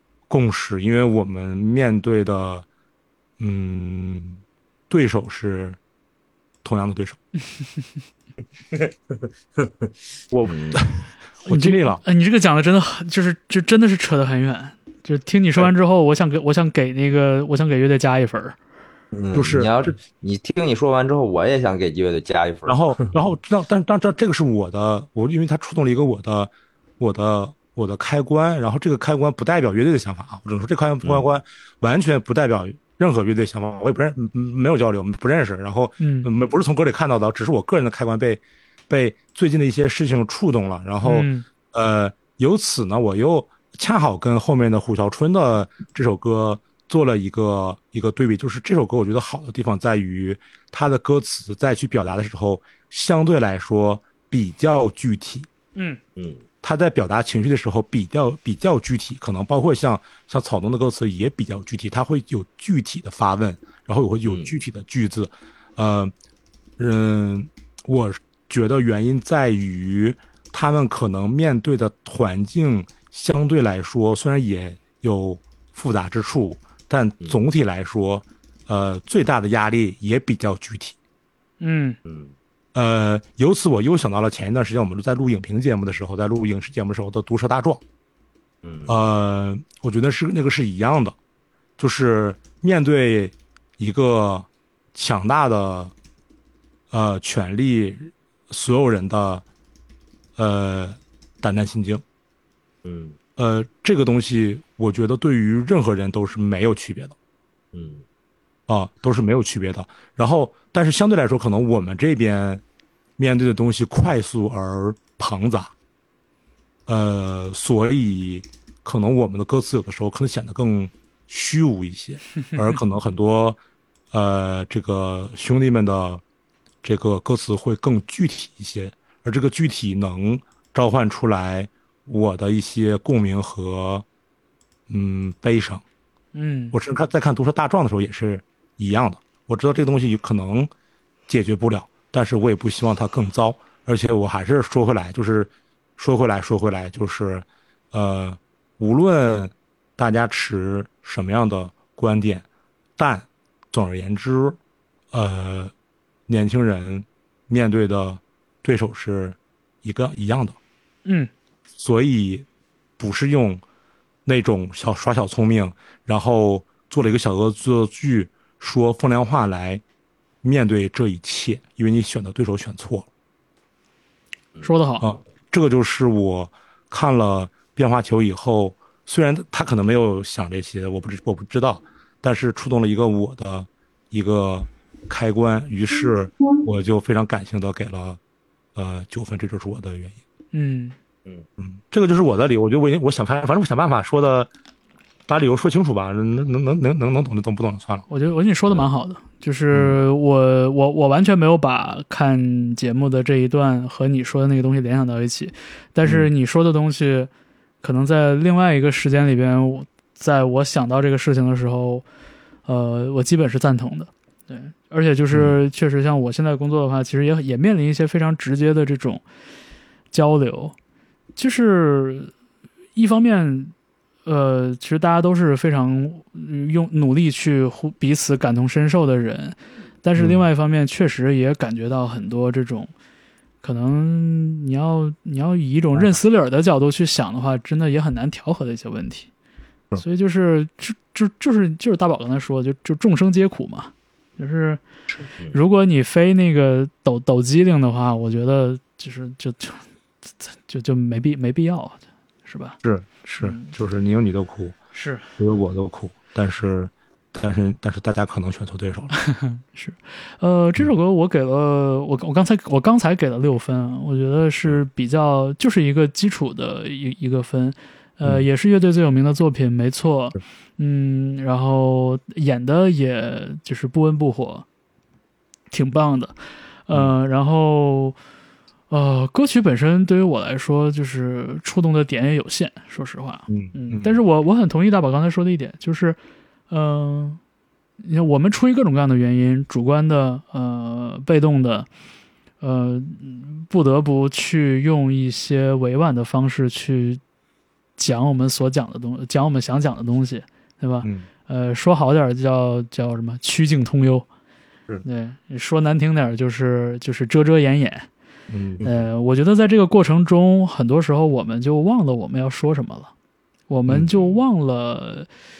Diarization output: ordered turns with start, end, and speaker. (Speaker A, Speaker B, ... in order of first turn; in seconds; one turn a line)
Speaker A: 0.3-2.7
Speaker A: 3.4-5.8
Speaker A: 6.6-7.2
Speaker B: 9.6-9.9
Speaker A: 10.3-12.0
Speaker B: 10.5-10.8
Speaker C: 11.4-18.6
Speaker B: 19.1-23.1
Speaker A: 19.3-19.9
Speaker A: 22.7-55.5
Speaker C: 36.0-36.3
Speaker C: 41.0-41.5
Speaker B: 56.2-56.4
Speaker A: 56.6-66.1
Speaker B: 64.3-64.5
Speaker A: 66.8-81.0
Speaker C: 81.6-82.0
Speaker B: 82.0-82.3
Speaker A: 82.7-87.8
Speaker B: 88.6-89.0
Speaker A: 88.9-91.2
Speaker A: 91.8-95.9
Speaker A: 96.9-99.4
Speaker A: 100.4-102.0
Speaker B: 102.8-103.2
Speaker A: 103.4-107.2
Speaker B: 107.7-108.0
Speaker A: 108.7-112.6
Speaker A: 113.2-115.7
Speaker A: 116.9-123.6
Speaker A: 124.1-126.2
Speaker A: 126.8-134.1
Speaker A: 134.9-135.8
Speaker C: 136.3-136.8
Speaker A: 136.7-140.7
Speaker A: 141.3-152.4
Speaker A: 153.0-154.6
Speaker A: 155.1-155.7
Speaker A: 156.3-160.6
Speaker A: 161.8-162.4
Speaker A: 163.0-163.6
Speaker A: 164.3-169.8
Speaker A: 170.4-173.1
Speaker C: 174.6-175.1
Speaker A: 175.0-188.2
Speaker A: 188.7-190.2
Speaker C: 190.5-190.9
Speaker A: 191.6-194.5
Speaker A: 195.3-198.1
Speaker C: 198.1-207.3
Speaker A: 199.7-200.0
Speaker C: 207.8-212.1
Speaker C: 212.7-219.2
Speaker A: 215.3-215.6
Speaker C: 220.1-220.8
Speaker C: 221.4-222.3
Speaker C: 222.9-223.7
Speaker C: 224.3-232.9
Speaker A: 230.2-230.4
Speaker C: 233.6-239.3
Speaker C: 240.0-244.8
Speaker C: 245.5-249.8
Speaker C: 250.4-253.7
Speaker A: 252.8-254.8
Speaker C: 254.9-255.2
Speaker A: 255.4-259.1
Speaker C: 259.3-274.6
Speaker C: 275.7-276.4
Speaker C: 276.9-278.2
Speaker C: 278.9-286.2
Speaker A: 283.5-284.2
Speaker C: 286.7-287.4
Speaker C: 288.0-291.9
Speaker C: 292.6-297.2
Speaker C: 298.0-304.3
Speaker C: 305.1-308.1
Speaker A: 308.5-308.9
Speaker C: 308.8-313.1
Speaker C: 313.7-315.3
Speaker A: 313.9-314.3